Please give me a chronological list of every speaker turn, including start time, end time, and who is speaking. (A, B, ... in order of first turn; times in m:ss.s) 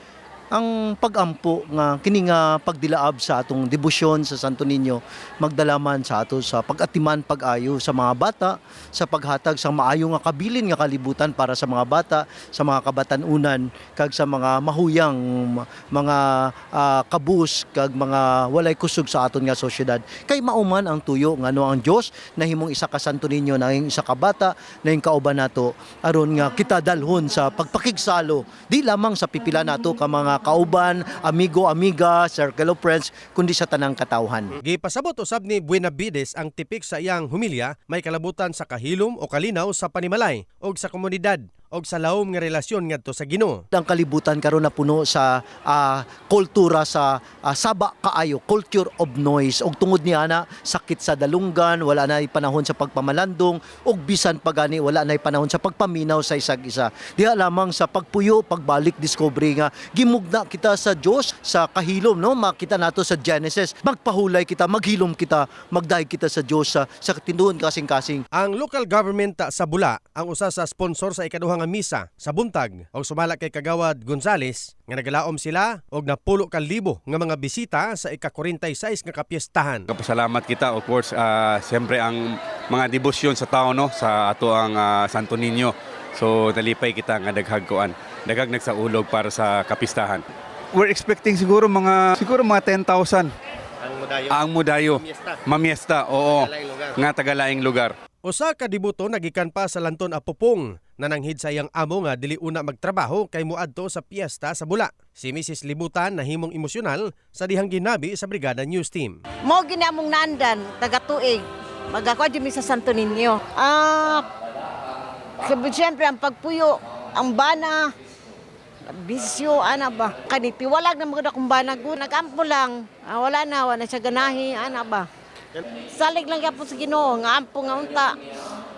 0:00.5-0:34.5 A
0:34.6-0:43.6 B
0:43.7-1:08.2 A
1:08.3-1:19.9 B
1:19.9-1:33.3 C
1:34.3-1:38.0 C
1:38.2-1:49.2 B
1:49.4-1:54.3 D
1:55.4-1:57.9 D
1:58.9-2:05.1 D
2:05.9-2:08.2 D